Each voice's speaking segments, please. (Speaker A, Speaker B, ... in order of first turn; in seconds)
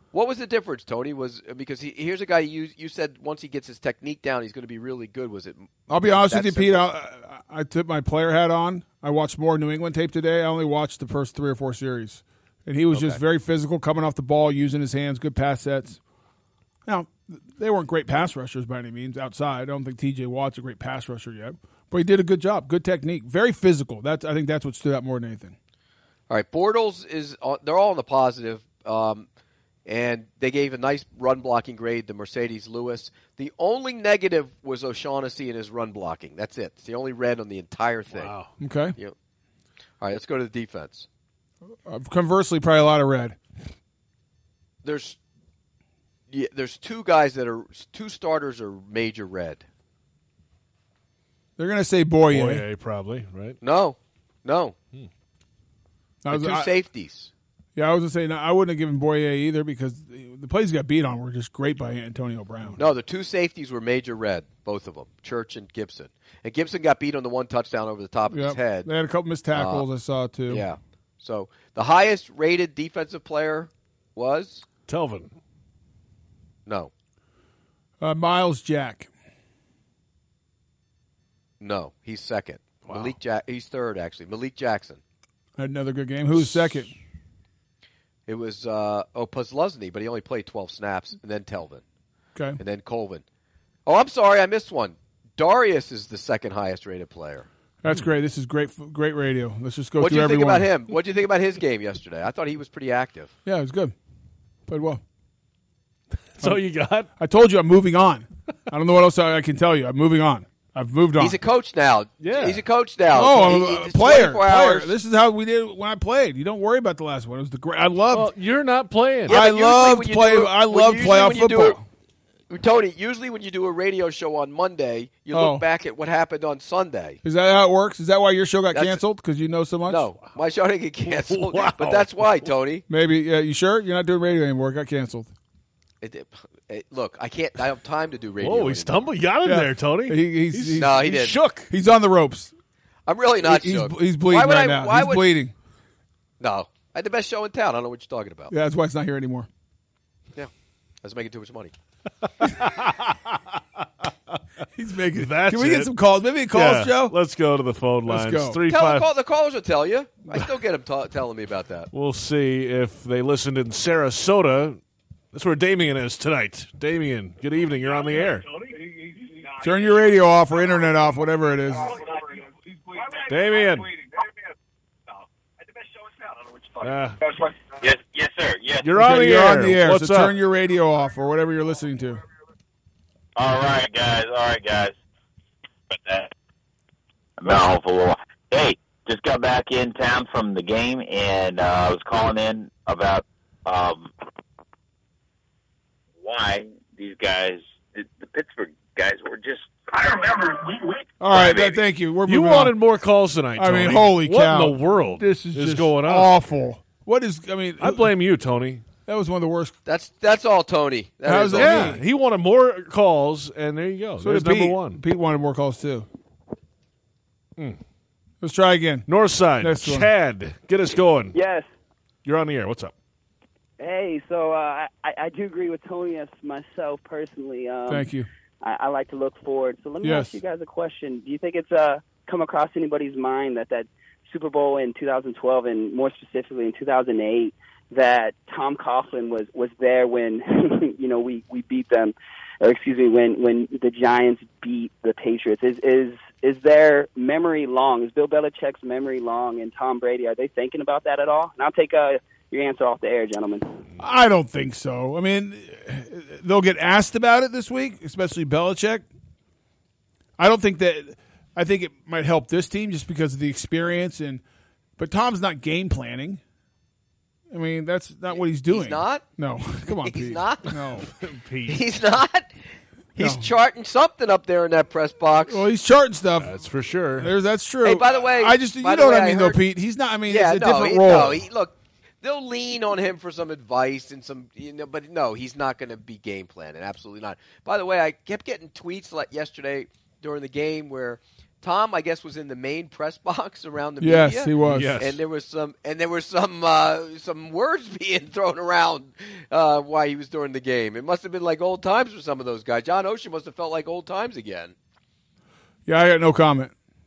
Speaker A: 0.1-6.8, 12.9-13.2, 26.3-29.3, 29.9-38.3, 40.0-41.1, 44.8-45.2, 46.3-49.6, 53.6-54.8, 56.3-57.3, 62.8-68.9, 69.5-69.9, 70.5-74.7, 76.7-76.9, 81.6-85.0, 88.3-91.8, 92.6-93.2, 93.9-97.5, 100.0-103.3, 111.2-115.0, 119.3-121.8, 122.5-127.2, 128.7-129.0, 129.9-132.8, 136.0-139.0, 140.8-141.4, 143.1-145.3, 146.4-148.5, 151.0-151.7, 158.7-161.9, 209.9-212.0, 268.3-269.2, 270.0-270.8, 271.7-272.5, 273.2-275.6, 277.8-279.6, 280.3-304.8
Speaker B: 5.9-16.0, 16.9-25.6, 38.6-39.0, 41.9-43.4, 51.6-52.6, 56.2-56.7, 57.8-62.8, 68.3-70.7, 78.0-79.1, 85.6-86.9, 92.3-92.6, 97.8-100.7, 103.5-103.9, 104.7-105.0, 107.2-111.4, 113.1-118.3, 119.3-121.8, 125.3-125.6, 127.2-130.1, 132.9-135.3, 139.4-142.5, 143.4-145.5, 148.5-149.5, 154.8-157.1, 158.1-158.6, 169.6-172.0, 179.0-182.2, 201.2-202.7, 203.6-208.1, 209.1-209.8, 211.2-212.0, 214.2-216.1, 218.4-219.1, 219.6-220.1, 227.9-228.3, 230.0-230.4, 254.0-259.1, 260.4-264.4, 265.0-266.4, 267.5-271.1, 273.2-273.5, 275.5-276.5, 277.2-281.4, 294.0-295.0, 305.9-306.7
Speaker C: 38.1-38.5, 52.3-53.6, 74.9-75.3, 82.9-83.2, 106.3-107.1, 112.2-112.6, 118.1-119.4, 131.1-132.5, 138.4-141.7, 152.4-153.4, 155.2-155.9, 156.5-159.1, 161.9-164.8, 165.3-168.5, 173.3-173.9, 176.8-177.2, 178.8-180.3, 202.3-206.3, 207.8-208.8, 211.6-215.0, 219.1-221.4, 222.2-222.9, 271.2-271.8, 276.4-277.3, 294.6-295.2
Speaker D: 177.8-178.9, 183.4-184.9, 185.9-186.3, 187.4-194.1, 196.2-201.8
Speaker E: 221.3-221.7, 223.8-228.1, 228.6-253.7